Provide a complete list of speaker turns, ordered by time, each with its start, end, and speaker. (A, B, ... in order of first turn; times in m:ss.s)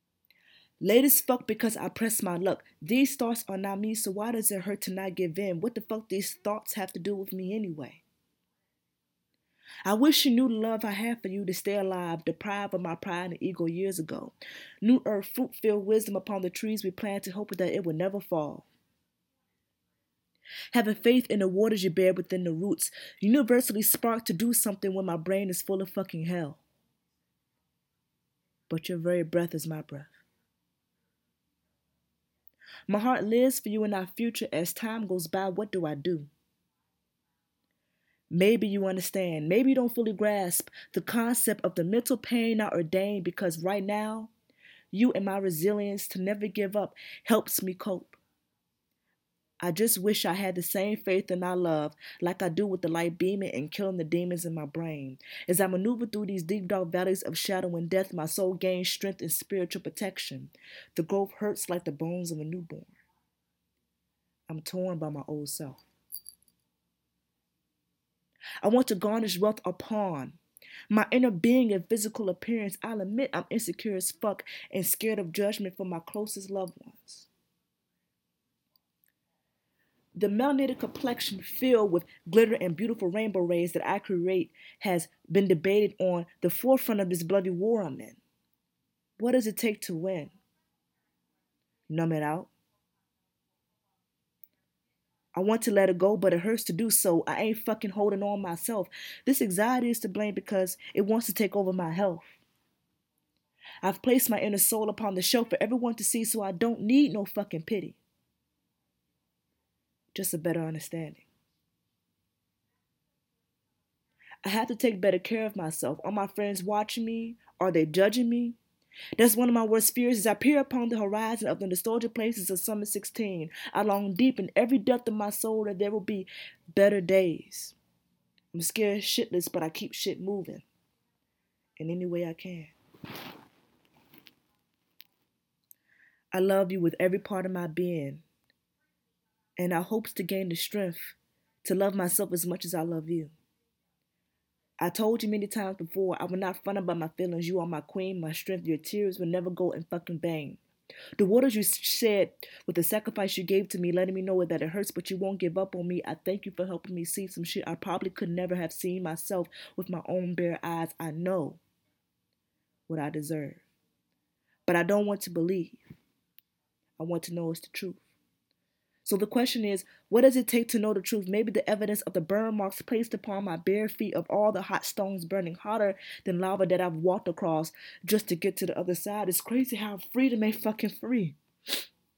0:00.8-0:08.0 A
0:09.9-0:18.7 A
0:20.7-0:26.6 A
0:28.7-0:30.1 A
0:32.9-0:36.3 A
0:38.3-0:44.3 A
0:44.9-0:48.2 A
0:49.6-1:02.9 A
1:04.5-1:05.8 A
1:08.6-1:10.4 A
1:10.9-1:17.3 A
1:20.2-1:28.2 A
1:29.2-1:30.4 A
1:31.9-1:32.5 A
1:35.4-1:42.4 A
1:43.8-1:48.0 A
1:50.1-1:51.2 A
1:54.4-1:58.6 A
1:59.2-2:07.8 A
2:08.5-2:10.7 A
2:11.8-2:12.7 A
2:16.3-2:18.2 A
2:19.6-2:23.3 A
2:24.8-2:30.6 A
2:31.2-2:41.6 A
2:42.9-2:43.6 A
2:44.7-2:45.8 A
2:47.0-2:48.0 A
2:49.0-3:01.4 A